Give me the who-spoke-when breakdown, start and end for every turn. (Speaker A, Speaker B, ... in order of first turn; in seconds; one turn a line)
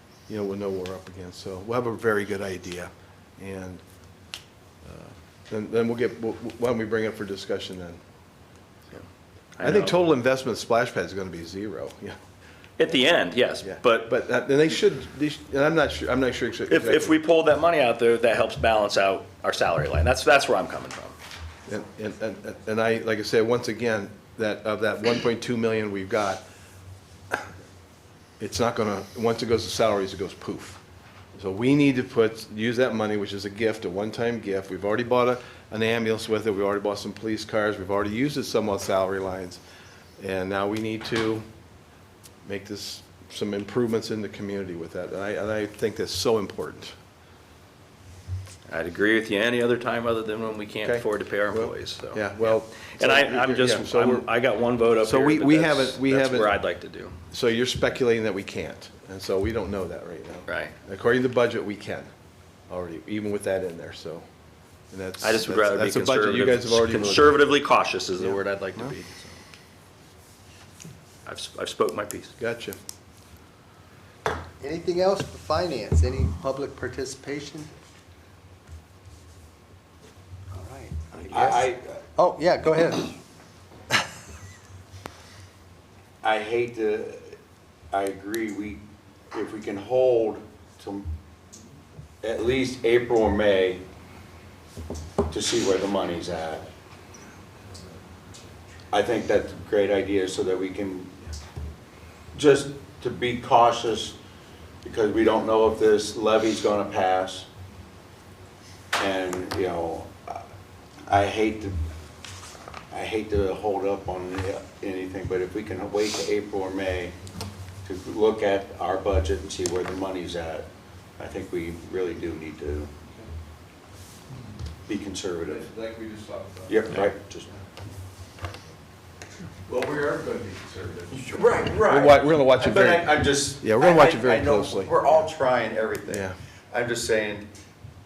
Speaker A: 0.3-3.8
Speaker A: 4.8-8.0
Speaker B: 9.6-10.0
Speaker A: 9.6-12.2
Speaker B: 12.8-14.1
Speaker A: 13.6-17.2
Speaker B: 16.7-21.1
Speaker A: 21.7-26.4
Speaker A: 28.4-30.8
Speaker A: 31.3-39.6
Speaker A: 40.2-41.4
Speaker A: 42.4-46.9
Speaker B: 48.7-57.1
Speaker A: 50.8-54.3
Speaker A: 55.0-56.6
Speaker A: 57.3-62.1
Speaker B: 60.5-60.7
Speaker A: 62.7-64.2
Speaker A: 64.9-67.5
Speaker B: 65.2-69.4
Speaker A: 68.2-68.9
Speaker B: 71.2-72.3
Speaker A: 72.4-72.8
Speaker C: 74.6-77.7
Speaker C: 80.6-83.2
Speaker D: 81.3-82.0
Speaker D: 86.2-87.3
Speaker D: 87.9-91.1
Speaker D: 92.2-93.8
Speaker D: 95.3-96.7
Speaker D: 98.9-101.1
Speaker D: 102.3-104.2
Speaker D: 104.8-107.5
Speaker D: 109.0-110.4
Speaker D: 111.1-111.8
Speaker D: 112.9-117.1
Speaker D: 117.8-120.7
Speaker D: 121.2-122.9
Speaker D: 124.9-125.7
Speaker A: 125.4-127.6
Speaker D: 126.7-127.5
Speaker A: 129.7-135.3
Speaker D: 131.1-137.5
Speaker A: 136.1-136.4